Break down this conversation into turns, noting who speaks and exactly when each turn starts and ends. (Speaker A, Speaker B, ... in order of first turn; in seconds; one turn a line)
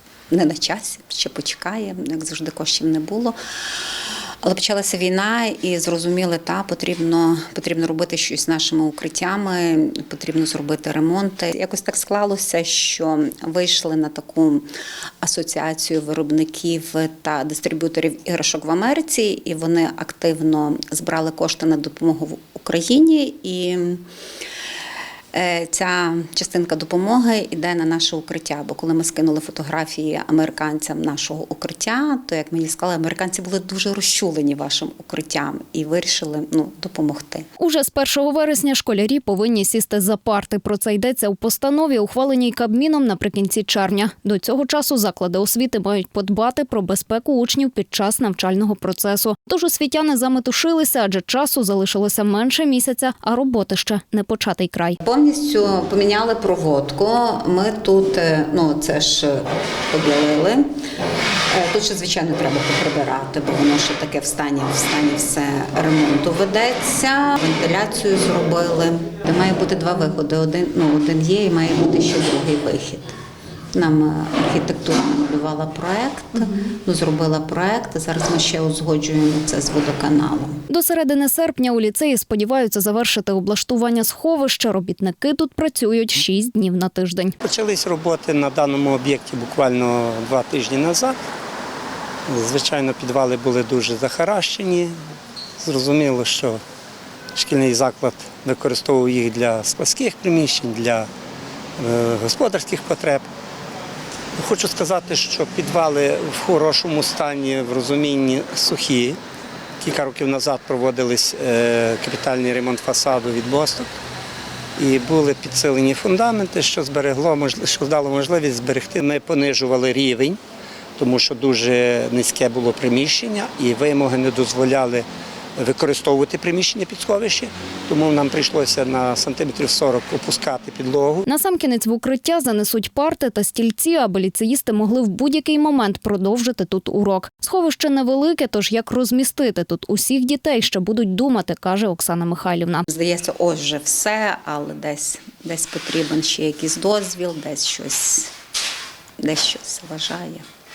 Speaker A: 0.3-3.4
Speaker A: 4.4-14.7
Speaker A: 15.2-24.0
Speaker A: 25.3-37.5
Speaker B: 37.6-55.0
Speaker A: 55.0-60.6
Speaker A: 61.5-73.2
Speaker A: 73.7-80.6
Speaker B: 80.7-87.3
Speaker C: 87.4-91.2
Speaker C: 92.3-94.9
Speaker C: 95.6-96.6
Speaker C: 97.3-101.1
Speaker C: 101.8-103.3
Speaker C: 104.4-109.2
Speaker C: 109.8-113.9
Speaker C: 114.8-120.4
Speaker C: 121.0-125.0
Speaker C: 125.6-131.2
Speaker B: 131.2-142.8
Speaker A: 142.9-148.3
Speaker A: 149.2-150.4